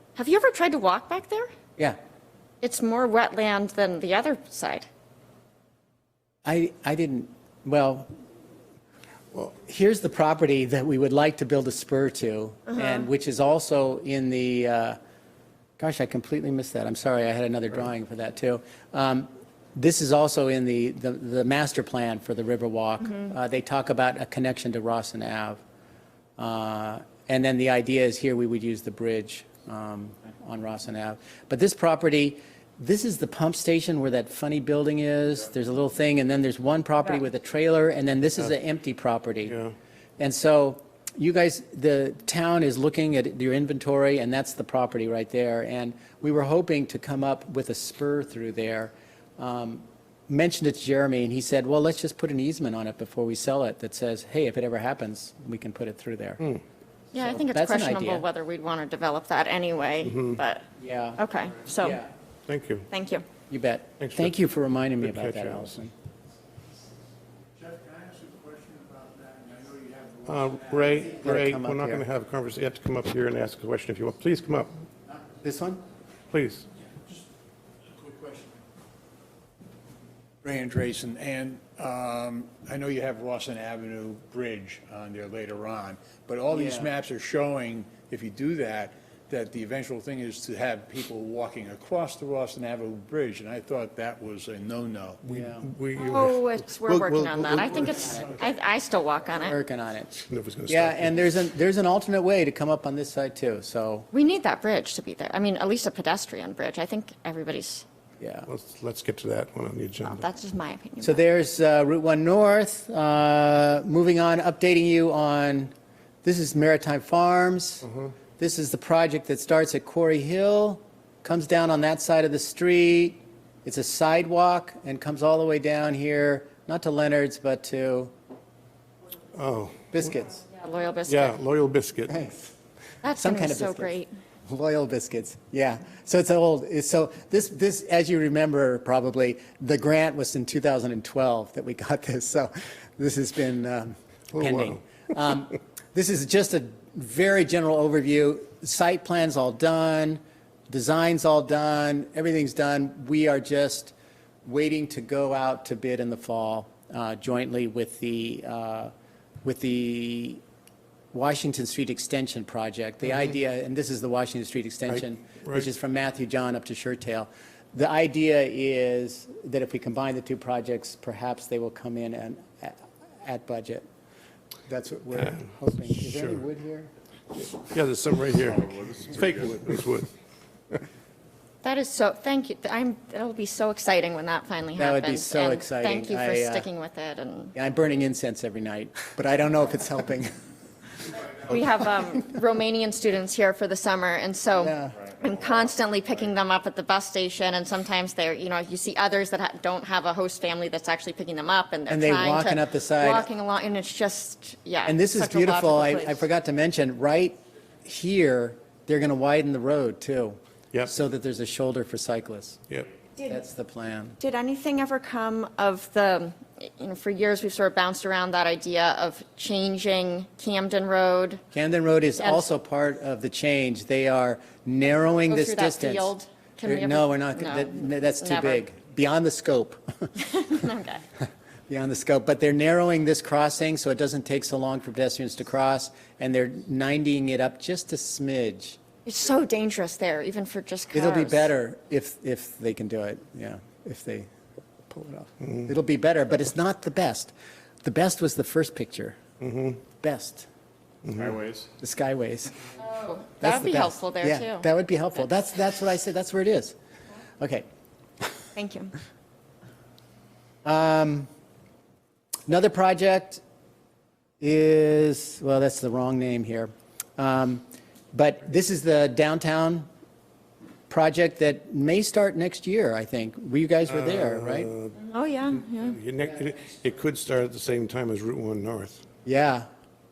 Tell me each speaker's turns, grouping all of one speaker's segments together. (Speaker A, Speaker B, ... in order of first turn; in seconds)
Speaker A: 0.1-1.5, 2.6-4.9, 57.1-60.6, 61.2-62.0, 62.9-63.2, 95.9-99.6, 104.1-107.8, 110.1-111.2, 130.5-131.4, 133.0-134.1, 181.6-187.5, 191.4-206.2, 214.2-221.4, 222.2-222.5, 225.2-228.6, 230.2-231.0, 239.0-241.5, 252.8-255.2, 258.5-258.9, 275.0-276.0
Speaker B: 6.4-8.1, 9.3-15.0, 15.8-25.6, 26.4-39.6, 40.2-56.5, 57.2-58.2, 60.8-61.2, 61.8-62.1, 63.5-65.9, 71.0-72.0, 75.1-75.8, 86.5-86.9, 95.2-95.7, 97.4-98.4, 99.4-104.1, 108.2-108.5, 111.0-115.7, 116.2-128.1, 129.9-130.4, 132.1-132.5, 133.1-153.9, 154.4-158.9, 159.4-160.4, 161.1-173.8, 174.7-176.9, 184.8-186.7, 187.6-190.3, 194.6-194.9, 201.9-203.3, 204.8-212.6, 213.3-214.2, 221.5-226.1, 226.6-230.1, 231.7-238.8, 240.9-244.3, 244.9-249.2, 250.0-250.5, 251.8-252.6, 253.4-256.7, 257.4-257.6, 260.6-261.3, 262.5-263.4, 264.4-269.9, 270.9-274.7, 279.2-279.7
Speaker C: 60.0-60.4, 62.5-62.9, 64.0-64.3, 65.0-65.7, 70.2-74.7, 76.3-76.7, 95.2-97.6, 100.3-101.1, 108.5-110.2, 129.3-130.0, 131.1-132.2, 144.3-144.8, 176.1-176.4, 177.3-180.1, 249.4-249.7, 273.9-274.9, 275.8-279.0
Speaker D: 67.6-71.1, 78.0-78.5, 80.4-95.2
Speaker E: 178.4-179.6, 194.9-195.7, 251.1-251.7